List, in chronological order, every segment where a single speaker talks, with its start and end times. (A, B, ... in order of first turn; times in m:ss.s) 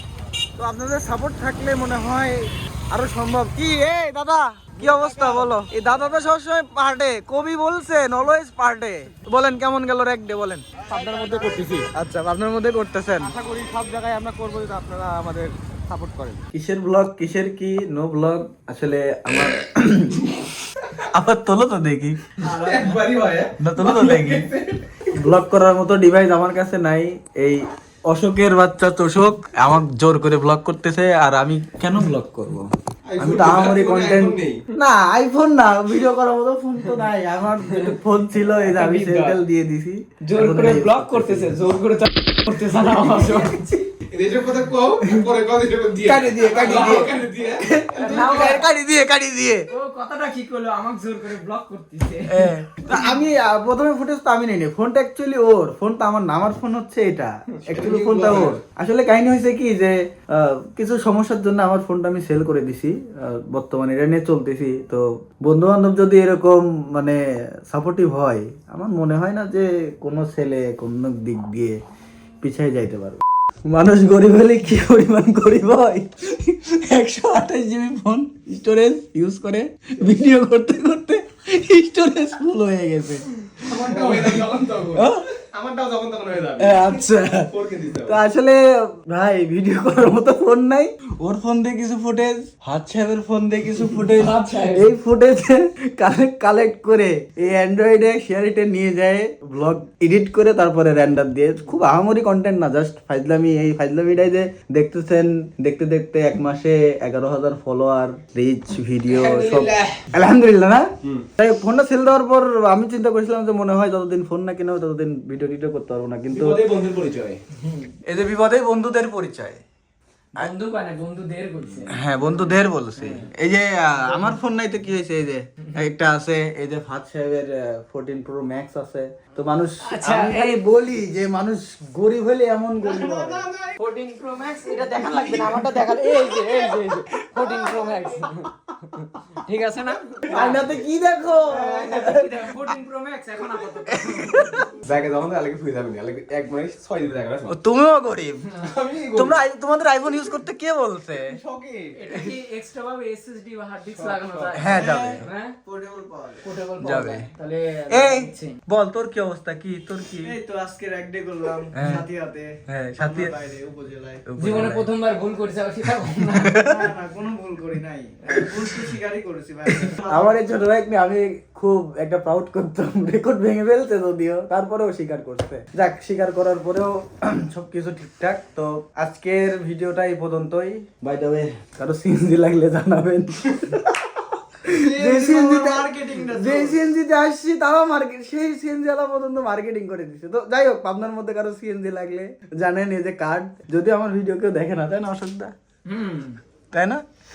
0:00.6-0:10.6 A
0:10.9-0:11.9 B
0:11.0-0:11.5 C
0:11.9-0:13.3 A
0:13.3-0:16.4 B
0:16.5-0:20.3 A
0:21.0-0:22.2 A
0:22.4-0:24.8 B
0:22.5-0:22.8 C
0:23.6-0:24.4 A
0:25.1-0:41.6 A
0:33.0-0:34.6 B
0:38.7-0:39.4 D
0:40.2-0:43.8 D
0:44.1-0:48.4 B
0:46.0-0:49.7 A
0:46.6-0:47.1 D
0:48.0-0:48.6 D
0:49.7-0:52.5 D
0:52.3-1:11.8 A
0:57.6-0:58.6 B
1:12.4-1:24.4 A
1:23.7-1:26.9 B
1:26.6-1:27.5 A
1:27.5-1:28.2 B
1:28.1-1:56.6 A
1:34.1-1:34.9 D
1:49.1-1:49.9 B
1:56.3-1:57.4 B
1:58.0-1:59.6 A
2:00.3-2:01.9 D
2:01.9-2:13.5 A
2:03.0-2:03.3 D
2:09.8-2:10.6 D
2:13.0-2:13.7 B
2:13.8-2:20.8 D
2:15.1-2:15.8 B
2:20.3-2:22.4 A
2:21.5-2:24.7 D
2:23.9-2:24.6 A
2:24.7-2:27.6 B
2:27.5-2:28.5 A
2:28.5-2:29.4 B
2:29.1-2:31.4 A
2:31.3-2:32.0 B
2:31.9-2:35.6 D
2:33.9-2:34.6 B
2:34.5-2:37.3 A
2:34.6-2:35.2 C
2:36.4-2:38.6 D
2:37.9-2:40.3 A
2:40.2-2:44.2 C
2:41.7-2:42.0 A
2:42.6-2:43.3 A
2:44.2-2:44.9 A
2:44.4-2:46.6 D
2:46.3-2:46.9 A
2:46.6-2:50.4 C
2:50.0-3:15.5 A
3:04.8-3:06.7 C
3:15.8-3:16.4 D
3:16.7-3:17.0 A